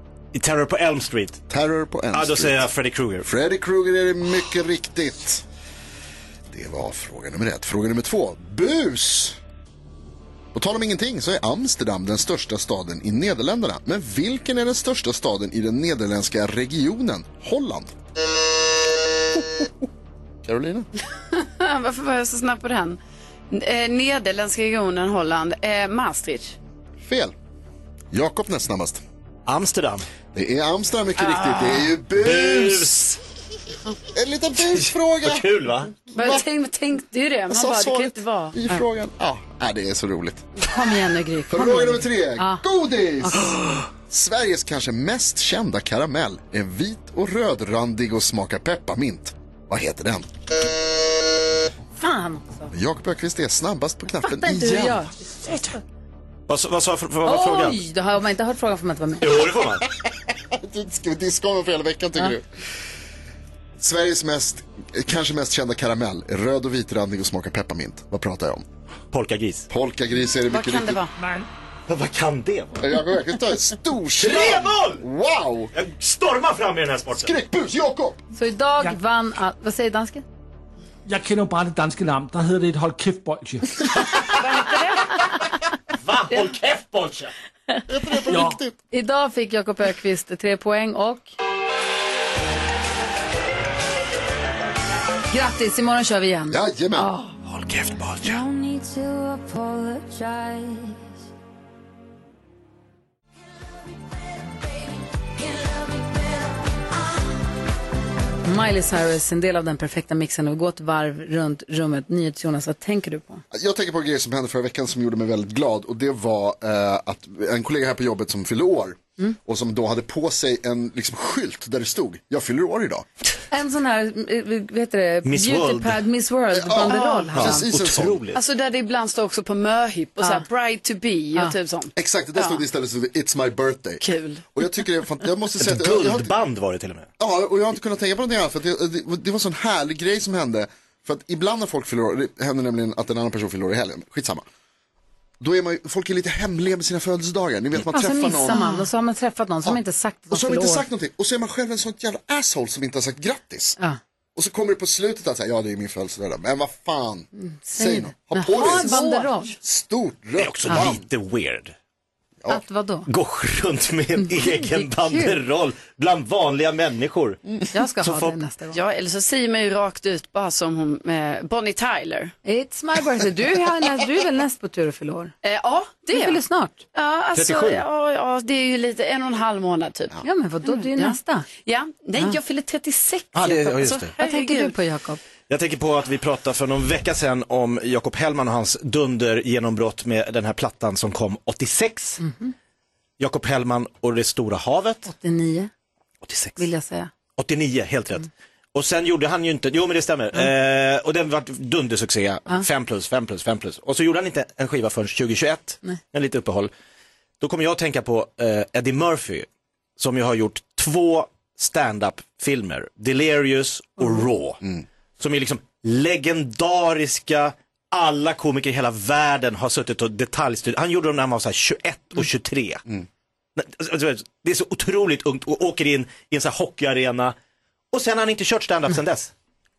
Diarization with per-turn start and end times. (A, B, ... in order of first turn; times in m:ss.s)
0:00.3-0:01.4 A
0:01.5-0:02.6 B
0:02.1-0:03.3 A
0:03.2-0:05.4 B
0:06.5-0:09.4 B
0:10.5-0:18.0 B
0:19.3-0:19.8 B
0:20.4-0:20.9 B
0:21.3-0:23.0 C
0:23.5-0:26.6 C
0:27.0-0:27.3 B
0:28.1-0:29.0 B
0:29.5-0:30.1 A
0:30.3-0:33.0 B
0:31.2-0:31.9 C
0:32.2-0:33.2 A
0:34.1-0:35.5 B
0:34.6-0:35.9 A
0:36.1-0:36.4 B
0:36.1-0:38.6 C
0:37.5-0:40.5 B
0:40.6-0:42.6 D
0:41.5-0:50.3 B
0:43.2-0:43.6 D
0:52.0-0:52.7 D
0:52.7-0:55.1 B
0:54.2-0:55.8 D
0:56.5-0:57.8 A
0:57.2-0:59.3 D
0:59.2-0:59.9 A
1:00.3-1:02.5 B
1:03.8-1:08.6 B
1:09.1-1:09.7 A
1:09.7-1:11.0 B
1:10.5-1:11.1 C
1:11.2-1:11.5 E
1:11.9-1:12.8 A
1:12.8-1:15.7 B
1:14.2-1:15.0 A
1:15.7-1:17.3 A
1:17.1-1:18.2 B
1:18.3-1:20.2 D
1:21.1-1:23.9 E
1:26.0-1:27.3 A
1:27.9-1:28.7 B
1:28.3-1:28.6 E
1:28.9-1:31.3 D
1:35.3-1:37.3 D
1:36.5-1:37.1 B
1:37.5-1:38.4 A
1:38.2-1:41.0 F
1:44.5-1:46.6 F
1:48.4-1:53.4 D
1:53.5-2:03.1 B
2:03.5-2:07.7 D
2:05.3-2:06.0 A
2:06.5-2:08.2 B
2:06.9-2:07.3 C
2:07.4-2:08.4 A
2:08.3-2:12.6 C
2:10.2-2:10.4 D
2:12.0-2:16.3 B
2:14.0-2:14.4 C
2:15.6-2:17.1 A
2:17.2-2:24.4 B
2:25.4-2:28.6 B
2:27.8-2:30.9 D
2:28.5-2:28.9 C
2:29.6-2:33.8 B
2:34.4-2:39.0 B
2:37.4-2:39.5 D
2:38.6-2:39.4 C
2:39.6-2:41.0 B
2:40.4-2:41.8 A
2:42.5-2:43.1 D
2:43.1-2:47.5 A
2:44.2-2:45.4 D
2:47.7-2:48.8 D
2:48.0-2:48.4 A
2:48.7-2:52.3 C
2:52.4-2:55.3 D
2:55.4-2:56.4 C
2:56.1-2:56.8 D
2:56.9-3:04.8 C
2:57.4-2:57.8 A
3:00.2-3:01.5 D
3:03.3-3:04.1 A
3:04.2-3:05.2 D
3:05.5-3:12.2 A
3:12.2-3:12.5 D
3:13.2-3:15.1 A
3:15.1-3:15.7 D
3:16.2-3:16.6 A
3:16.6-3:17.1 D
3:17.4-3:26.7 A
3:27.4-3:29.5 A
3:30.0-3:34.6 A
3:35.2-3:42.8 A
3:43.6-3:47.4 A
3:47.9-3:49.3 A